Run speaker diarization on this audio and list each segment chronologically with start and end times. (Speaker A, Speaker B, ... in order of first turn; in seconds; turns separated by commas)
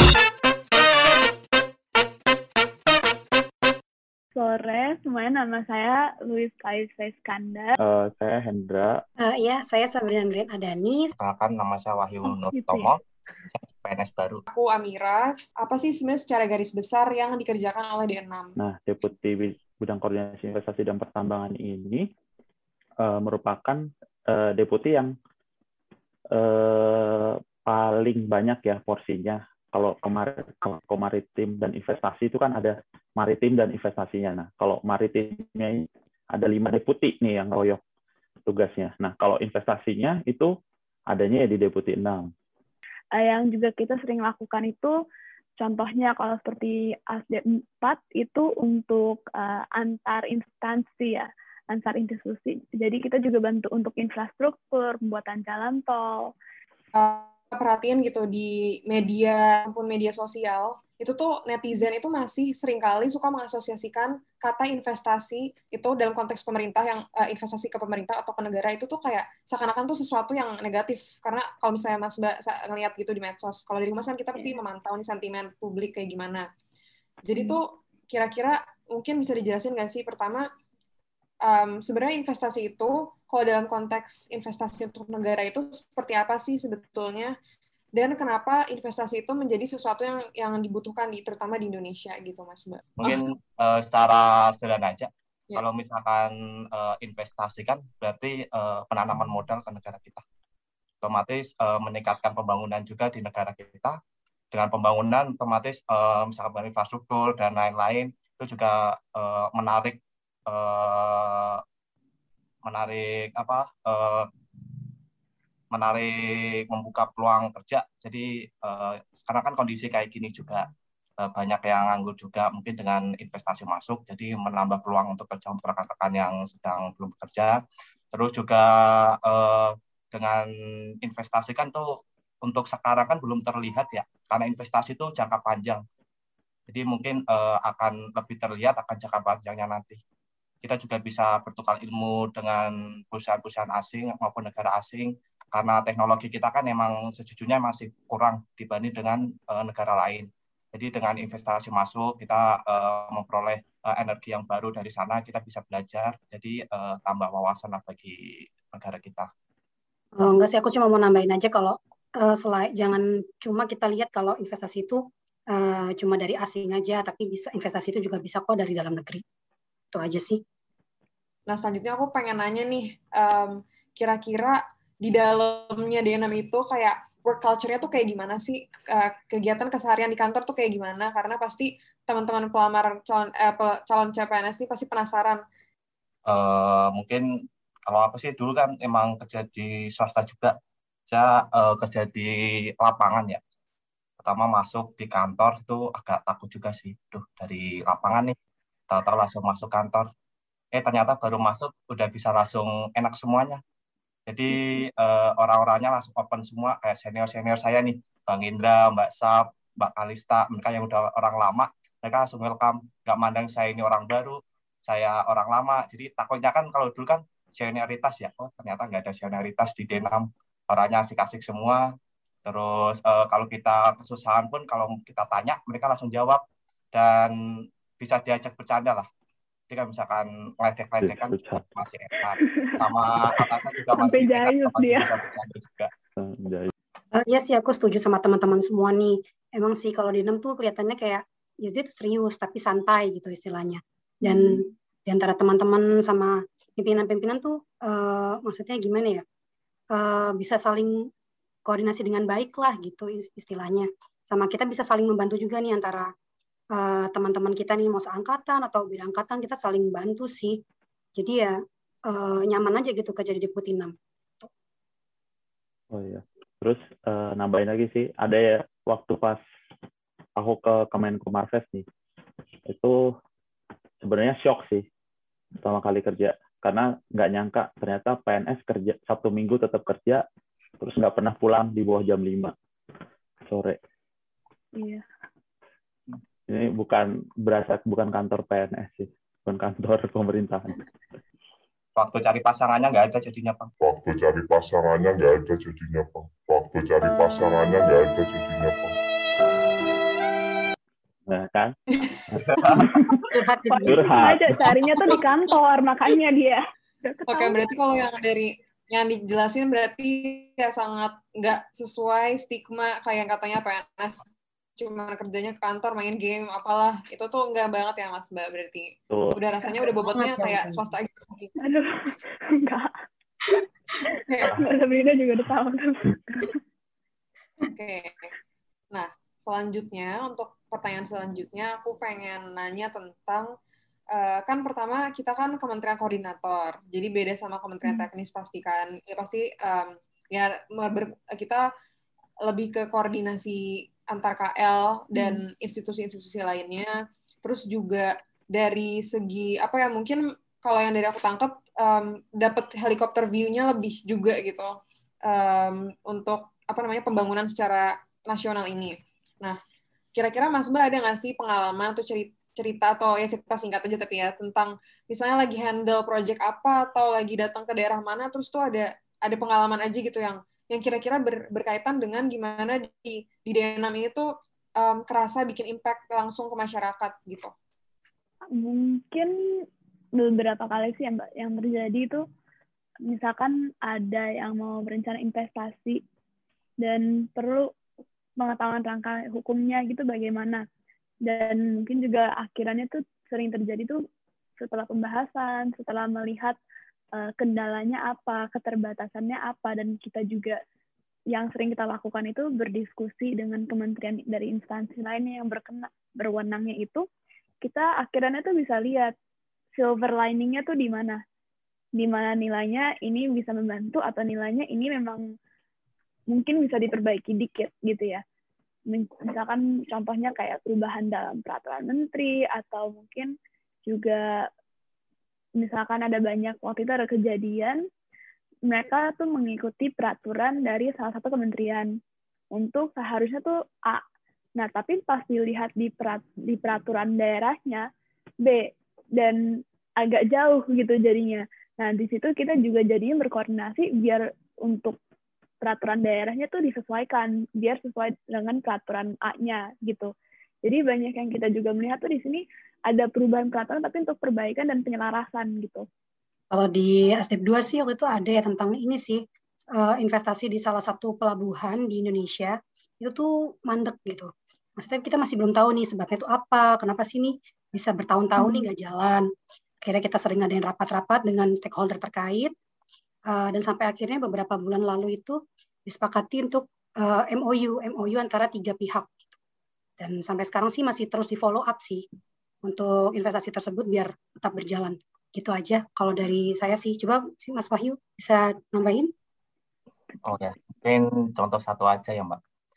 Speaker A: 4.3-7.8, Speaker B: 7.8-9.0, Speaker C: 9.2-11.1, Speaker D: 11.2-13.0, Speaker A: 12.3-12.9, Speaker D: 13.5-14.4, Speaker E: 14.5-18.6, Speaker B: 18.6-22.1, Speaker B: 23.0-25.1, Speaker B: 26.4-37.8, Speaker B: 38.5-40.5, Speaker B: 41.1-42.3, Speaker A: 43.2-45.0, Speaker A: 45.6-56.3, Speaker E: 56.9-76.5, Speaker A: 74.3-74.6, Speaker E: 77.3-80.5, Speaker A: 77.3-77.6, Speaker E: 81.5-87.3, Speaker E: 88.0-93.2, Speaker D: 93.0-100.2, Speaker D: 101.0-104.0, Speaker D: 104.5-111.6, Speaker D: 112.7-114.3, Speaker D: 115.7-120.7, Speaker D: 121.2-127.6, Speaker D: 128.1-130.5, Speaker D: 131.0-135.8, Speaker D: 136.7-140.0, Speaker D: 140.6-159.3, Speaker C: 160.2-169.2, Speaker C: 169.9-170.4, Speaker E: 171.5-185.4, Speaker D: 186.3-187.2, Speaker D: 187.9-190.5, Speaker D: 191.1-193.4, Speaker D: 194.2-198.3, Speaker D: 198.9-200.1, Speaker D: 200.8-203.6, Speaker D: 204.3-221.8, Speaker D: 222.4-226.4, Speaker D: 226.9-227.3, Speaker D: 228.0-229.1, Speaker D: 229.7-235.9, Speaker B: 231.0-231.7, Speaker A: 232.4-232.7, Speaker A: 233.9-235.1, Speaker B: 236.2-236.7, Speaker C: 237.1-249.2, Speaker A: 244.2-244.6, Speaker C: 249.9-251.0, Speaker C: 251.7-256.1, Speaker C: 256.8-260.6, Speaker C: 261.2-261.5, Speaker C: 262.1-264.5, Speaker B: 265.9-269.4, Speaker B: 270.4-271.9, Speaker B: 272.7-273.1, Speaker B: 274.0-274.9, Speaker B: 275.6-280.2, Speaker B: 280.8-282.5, Speaker B: 283.5-283.8, Speaker A: 284.8-285.0, Speaker B: 286.5-290.8, Speaker D: 292.0-293.7, Speaker F: 293.8-298.9, Speaker B: 301.3-301.7, Speaker E: 301.9-302.9, Speaker B: 302.3-303.3, Speaker C: 303.3-304.1, Speaker A: 303.7-307.7, Speaker B: 303.9-304.6, Speaker E: 307.3-314.2, Speaker E: 314.8-321.6, Speaker B: 319.1-319.4, Speaker C: 319.6-320.8, Speaker A: 321.6-322.9, Speaker E: 324.3-324.6, Speaker A: 324.5-326.6, Speaker E: 327.7-328.3, Speaker E: 328.9-333.5, Speaker E: 334.1-341.7, Speaker A: 337.8-338.1, Speaker E: 342.5-346.9, Speaker A: 345.1-345.4, Speaker E: 347.4-354.7, Speaker E: 355.3-359.6, Speaker E: 360.1-374.3, Speaker E: 374.8-377.5, Speaker A: 378.6-379.3, Speaker A: 380.2-382.2, Speaker A: 383.1-386.0, Speaker A: 386.8-387.7, Speaker A: 388.4-390.6, Speaker A: 391.3-394.0, Speaker A: 394.6-396.6, Speaker A: 397.2-400.6, Speaker A: 401.3-407.1, Speaker A: 407.6-409.1, Speaker A: 409.8-411.2, Speaker A: 412.0-415.2, Speaker A: 416.3-418.2, Speaker A: 418.9-423.3, Speaker A: 423.9-424.2, Speaker A: 425.6-427.8, Speaker A: 428.7-431.9, Speaker A: 432.6-434.0, Speaker A: 434.6-437.9, Speaker A: 438.4-439.4, Speaker A: 440.0-445.0, Speaker A: 445.6-450.1, Speaker A: 450.6-455.9, Speaker C: 456.5-459.2, Speaker C: 459.8-469.3, Speaker A: 468.4-468.7, Speaker C: 469.8-472.5, Speaker C: 473.3-479.3, Speaker C: 480.0-482.1, Speaker C: 482.6-489.1, Speaker D: 490.2-492.4